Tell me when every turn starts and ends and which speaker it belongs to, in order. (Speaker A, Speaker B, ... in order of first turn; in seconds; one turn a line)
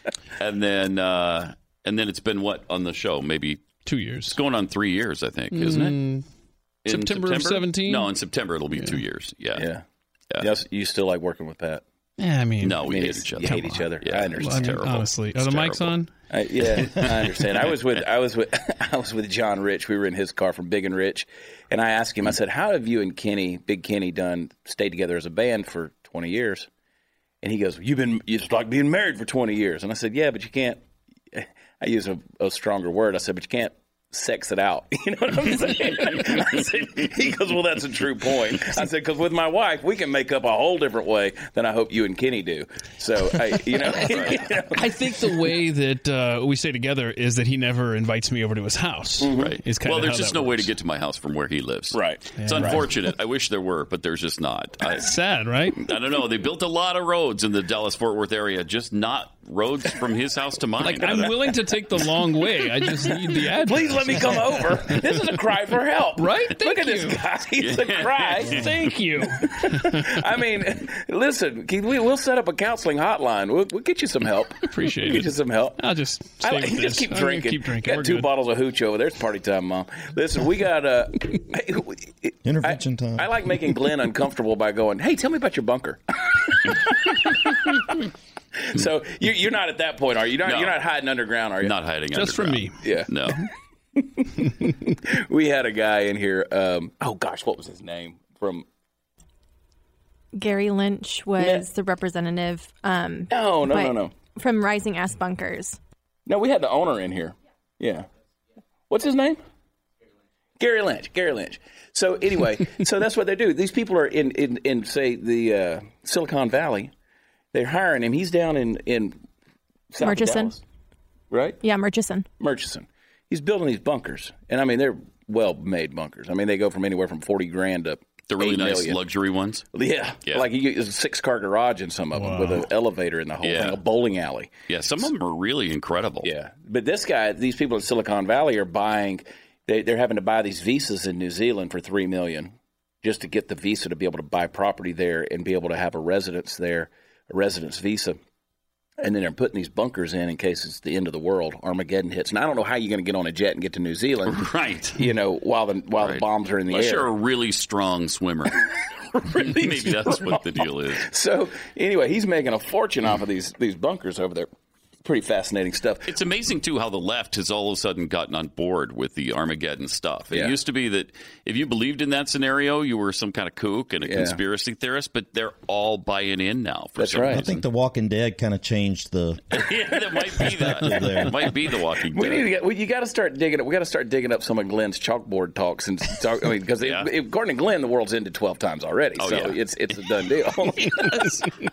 Speaker A: 0.4-3.8
Speaker B: 3.8-4.4
Speaker A: 4.3-6.0
Speaker B: 5.5-6.2
Speaker A: 6.8-9.7
Speaker B: 6.8-8.1
Speaker C: 9.5-9.8
Speaker C: 10.4-11.8
Speaker B: 12.2-16.1
Speaker A: 12.6-16.0
Speaker C: 12.8-14.8
Speaker C: 16.3-26.7
Speaker C: 27.4-30.8
Speaker C: 31.3-44.9
Speaker A: 44.1-44.4
Speaker B: 44.7-50.7
Speaker C: 49.2-49.5
Speaker A: 49.4-55.1
Speaker C: 51.9-52.8
Speaker B: 52.4-52.8
Speaker B: 54.9-55.9
Speaker A: 55.7-61.7
Speaker B: 60.8-65.0
Speaker C: 63.6-68.7
Speaker B: 66.2-67.2
Speaker A: 67.6-68.8
Speaker B: 68.5-70.2
Speaker C: 69.4-75.8
Speaker B: 74.6-78.3
Speaker C: 76.4-88.0
Speaker D: 82.4-83.3
Speaker C: 88.5-91.7
Speaker A: 90.4-90.8
Speaker A: 91.6-93.5
Speaker B: 92.1-92.9
Speaker C: 92.8-93.1
Speaker C: 94.0-98.7
Speaker E: 100.3-105.8
Speaker C: 101.4-101.7
Speaker C: 103.3-104.1
Speaker C: 106.2-108.1
Speaker C: 108.9-109.4
Speaker C: 110.6-116.9
Speaker C: 117.5-119.2
Speaker C: 119.9-120.6
Speaker E: 120.0-120.5
Speaker C: 121.3-121.6
Speaker E: 121.6-122.3
Speaker C: 122.4-129.0
Speaker A: 128.3-129.7
Speaker C: 129.7-134.5
Speaker B: 132.1-132.7
Speaker A: 133.4-133.8
Speaker A: 134.7-136.3
Speaker C: 136.2-148.2
Speaker C: 149.0-157.1
Speaker A: 154.2-155.0
Speaker A: 156.0-158.6
Speaker C: 159.1-164.5
Speaker A: 159.2-161.1
Speaker C: 165.0-166.1
Speaker A: 166.1-177.6
Speaker C: 174.0-174.4
Speaker C: 176.9-177.4
Speaker D: 177.3-179.6
Speaker A: 179.5-182.5
Speaker D: 180.4-181.5
Speaker C: 182.1-191.6
Speaker A: 186.8-187.1
Speaker A: 189.2-190.3